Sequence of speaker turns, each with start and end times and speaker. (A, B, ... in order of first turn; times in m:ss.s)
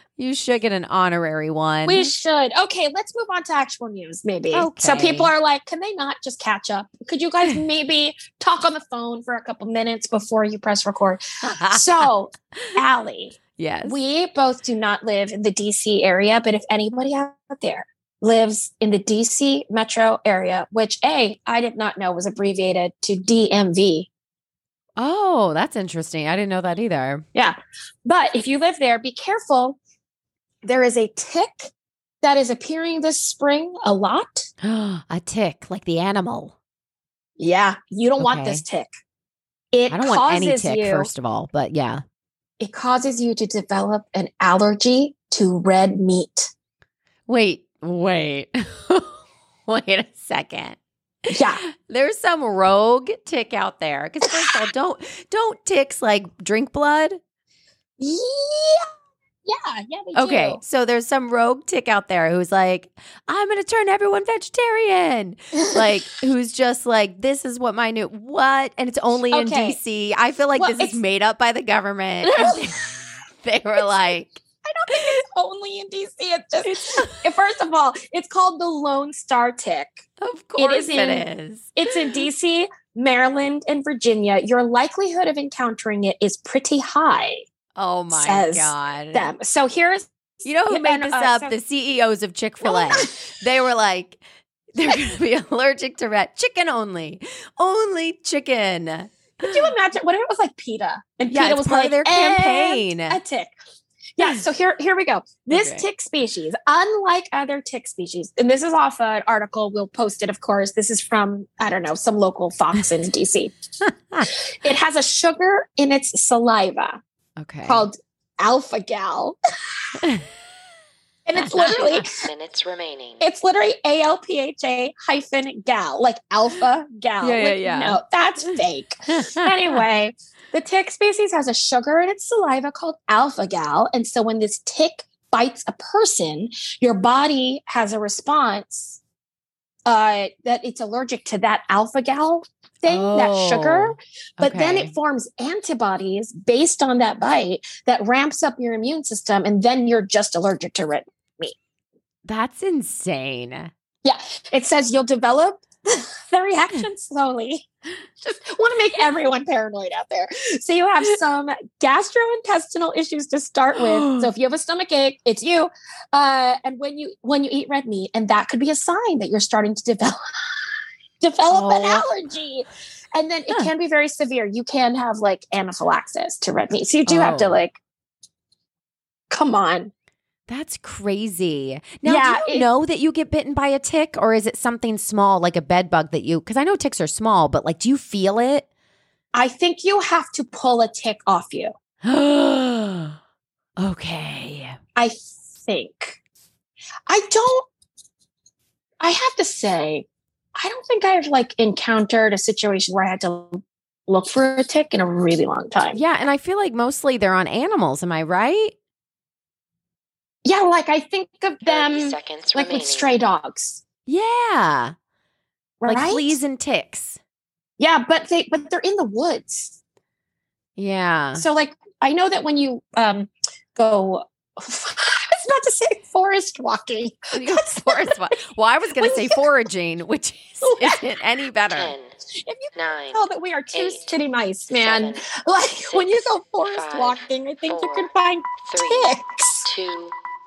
0:00.2-0:02.1 A
0:01.9-0:24.1 B
0:04.5-0:05.3 A
0:11.4-0:12.8 A
0:13.6-0:14.0 A
0:25.0-0:27.2 A
0:27.4-0:29.8 B
0:30.6-0:31.7 B
0:32.2-0:34.5 B
0:34.6-0:36.5 A
0:37.4-0:38.9 B
0:38.2-0:38.6 A
0:39.7-0:41.1 B
0:39.9-0:42.0 A
0:42.6-0:46.5 B
0:47.3-0:50.8 A
0:51.3-0:57.2 A
0:51.3-0:51.6 B
0:58.0-0:58.8 B
0:59.5-1:00.6 B
1:00.1-1:14.4 A
1:09.3-1:09.8 B
1:10.6-1:11.0 B
1:12.2-1:12.7 B
1:14.6-1:20.0 B
1:16.6-1:17.1 A
1:20.2-1:22.0 A
1:20.6-1:27.4 B
1:27.8-1:29.3 A
1:28.1-1:31.6 B
1:30.4-1:34.2 A
1:32.6-1:33.3 B
1:34.7-1:39.7 A
1:39.4-1:43.5 B
1:41.3-1:43.2 A
1:44.2-1:53.5 B
1:45.5-1:45.9 A
1:54.6-1:57.0 B
1:57.4-1:57.9 A
1:57.7-1:59.4 B
2:01.3-2:02.1 B
2:01.4-2:02.0 A
2:01.7-2:03.2 C
2:03.2-2:19.0 B
2:07.2-2:08.6 A
2:09.1-2:09.8 A
2:19.9-2:31.5 B
2:22.9-2:24.9 A
2:32.3-2:33.7 A
2:34.0-2:37.6 B
2:38.2-2:50.2 B
2:43.8-2:44.3 A
2:51.2-2:57.8 B
2:51.5-2:52.1 A
2:57.1-2:57.6 A
2:59.3-2:59.9 B
3:00.5-3:08.7 A
3:02.0-3:02.7 B
3:09.3-3:11.7 B
3:12.0-3:13.2 A
3:13.8-3:14.8 A
3:15.0-3:16.2 B
3:17.1-3:17.7 B
3:19.0-3:20.1 B
3:20.6-3:26.0 B
3:25.9-3:28.8 A
3:30.4-3:33.8 B
3:31.6-3:33.1 C
3:34.1-3:34.9 A
3:35.8-3:36.4 B
3:35.8-3:37.2 A
3:37.8-3:39.8 B
3:40.8-3:41.4 A
3:41.3-3:48.2 B
3:47.3-3:51.9 A
3:49.0-3:49.4 B
3:50.6-3:51.0 B
3:51.7-3:52.1 C
3:52.4-3:59.7 B
3:52.8-3:53.2 C
3:53.7-3:54.1 C
3:54.7-3:55.2 C
3:55.8-3:58.1 C
3:58.6-4:00.2 C